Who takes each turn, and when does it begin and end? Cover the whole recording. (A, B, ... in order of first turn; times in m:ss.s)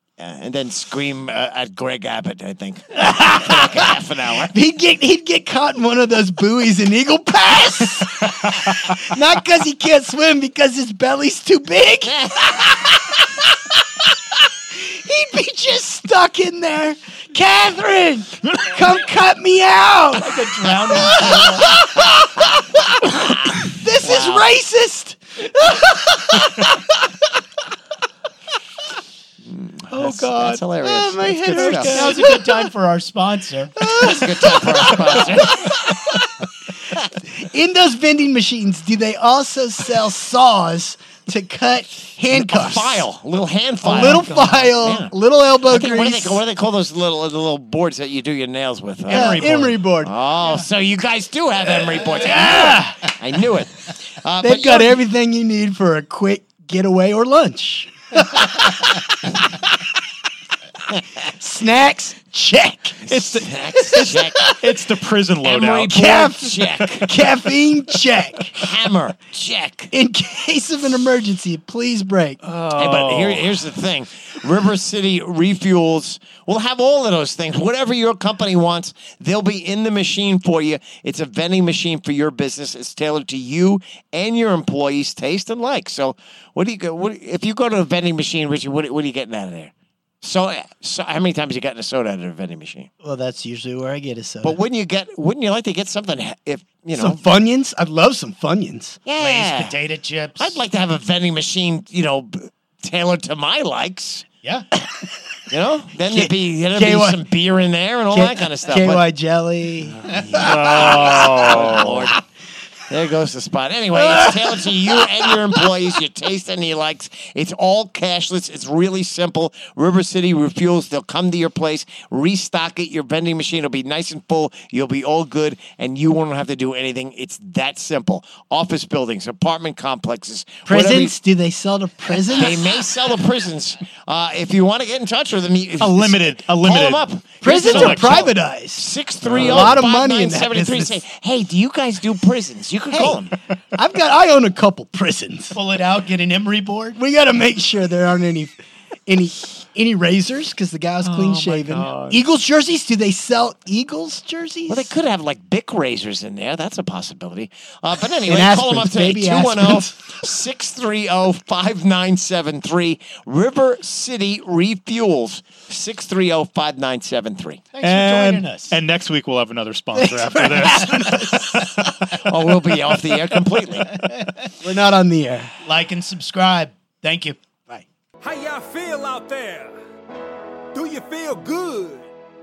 0:00.2-0:04.5 A
0:03.0-0:27.2 B
0:20.2-0:21.7 C
0:24.0-0:24.3 C
0:29.4-0:32.1 A
0:29.9-0:32.6 B
0:31.5-0:31.9 D
0:31.8-0:33.9 C
0:33.8-0:43.1 B
0:33.9-0:35.9 A
0:42.3-0:45.1 A
0:43.8-0:46.4 B
0:44.1-0:44.4 D
0:45.7-0:55.0 A
0:49.1-0:50.1 B
0:49.1-0:49.8 D
0:51.7-0:53.4 B
0:54.4-0:59.9 B
1:01.1-1:04.8 B
1:03.0-1:04.4 A
1:03.1-1:06.0 D
1:05.4-1:07.2 A
1:05.8-1:08.6 B
1:08.5-1:09.9 A
1:09.9-1:12.4 B
1:12.4-1:13.7 D
1:12.7-1:32.9 A
1:33.0-1:34.6 B
1:34.4-1:37.2 A
1:36.9-1:39.0 B
1:39.0-1:39.7 A
1:39.2-1:40.6 C
1:40.4-1:44.2 A
1:45.5-1:49.0 A
1:46.0-1:47.2 B
1:48.1-1:52.2 B
1:50.1-1:50.4 C
1:50.1-1:52.2 A
1:50.3-1:52.1 D
1:52.9-2:11.1 A
1:53.9-1:55.8 B
2:10.6-2:12.6 B
2:12.3-2:23.4 A
2:15.8-2:18.3 D
2:17.4-2:21.0 B
2:19.2-2:19.8 D
2:22.9-2:23.2 B
2:23.7-2:25.6 B
2:25.5-2:27.0 C
2:27.0-2:28.5 B
2:29.0-2:34.9 B
2:31.0-2:32.2 D
2:34.7-2:47.6 A
2:38.2-2:40.2 B
2:47.7-2:48.8 C
2:47.8-2:51.6 D
2:49.9-2:52.1 B
2:51.8-2:54.0 A
2:53.9-2:54.5 C
2:54.6-2:55.5 B
2:55.6-2:57.4 C
2:58.2-2:59.7 E
3:00.7-3:02.1 E